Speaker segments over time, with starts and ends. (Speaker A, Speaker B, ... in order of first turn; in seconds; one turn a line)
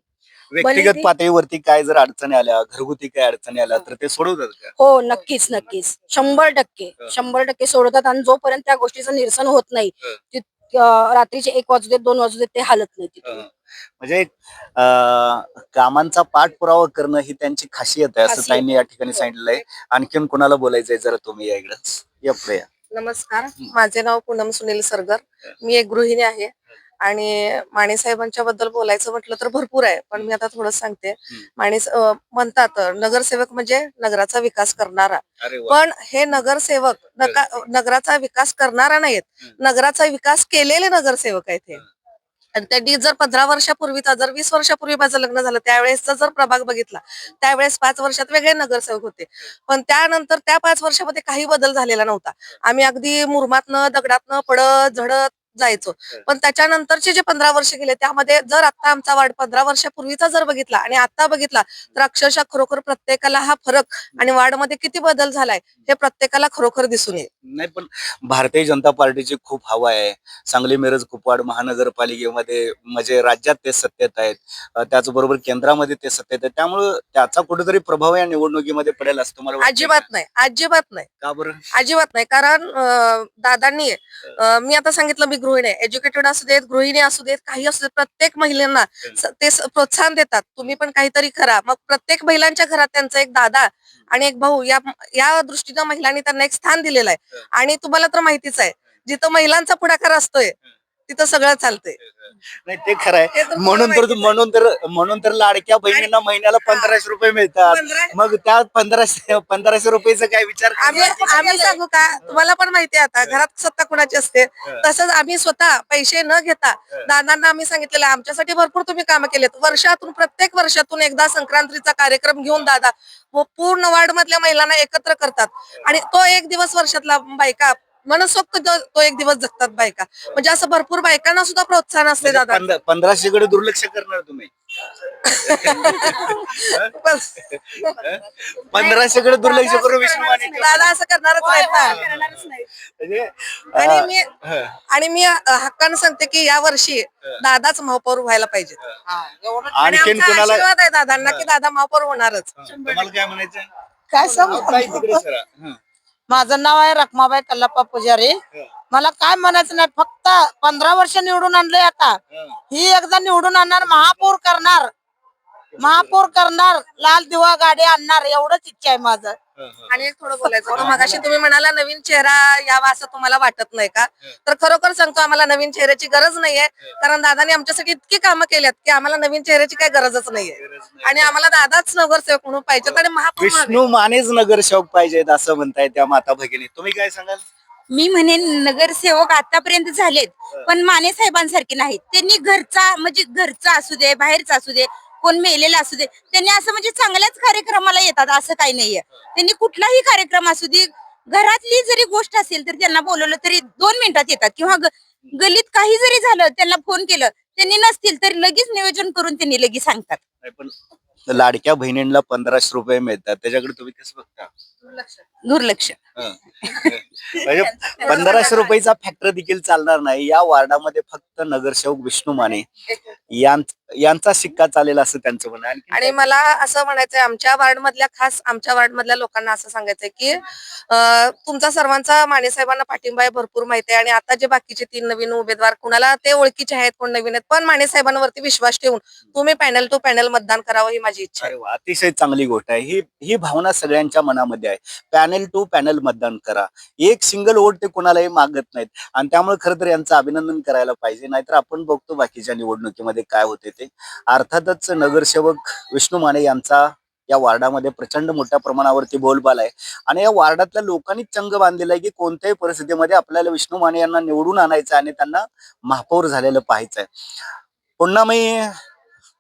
Speaker A: 0.5-4.7
Speaker B: 0.6-1.1
Speaker B: 4.8-13.4
Speaker A: 13.2-22.7
Speaker C: 18.3-19.6
Speaker C: 22.9-26.5
Speaker C: 27.0-41.8
Speaker A: 35.4-35.8
Speaker C: 42.5-67.3
Speaker A: 67.5-80.1
Speaker C: 79.6-81.1
Speaker A: 81.2-81.6
Speaker C: 81.7-100.5
Speaker C: 101.1-102.0
Speaker A: 102.7-111.7
Speaker C: 103.3-104.3
Speaker C: 106.6-106.9
Speaker C: 107.7-108.2
Speaker C: 110.8-132.6
Speaker A: 132.2-134.5
Speaker C: 135.2-138.0
Speaker A: 135.4-140.9
Speaker C: 138.8-142.0
Speaker D: 140.0-140.5
Speaker D: 141.4-142.6
Speaker A: 141.8-144.8
Speaker C: 143.8-144.3
Speaker C: 144.9-148.8
Speaker D: 149.1-150.0
Speaker A: 149.7-150.7
Speaker C: 149.9-152.5
Speaker A: 151.2-151.5
Speaker A: 152.6-153.7
Speaker D: 152.7-153.1
Speaker D: 154.1-155.2
Speaker A: 154.3-155.8
Speaker D: 156.3-158.4
Speaker D: 158.9-164.9
Speaker A: 162.3-162.6
Speaker D: 165.8-169.4
Speaker A: 165.8-166.3
Speaker A: 169.6-170.0
Speaker C: 169.9-183.8
Speaker A: 170.8-171.2
Speaker A: 180.6-181.3
Speaker A: 182.8-187.4
Speaker E: 187.9-210.2
Speaker A: 210.4-210.7
Speaker A: 211.3-214.5
Speaker E: 215.0-216.0
Speaker A: 216.2-222.7
Speaker E: 216.6-218.8
Speaker A: 223.3-226.4
Speaker C: 225.9-241.5
Speaker A: 241.4-267.1
Speaker A: 268.0-268.8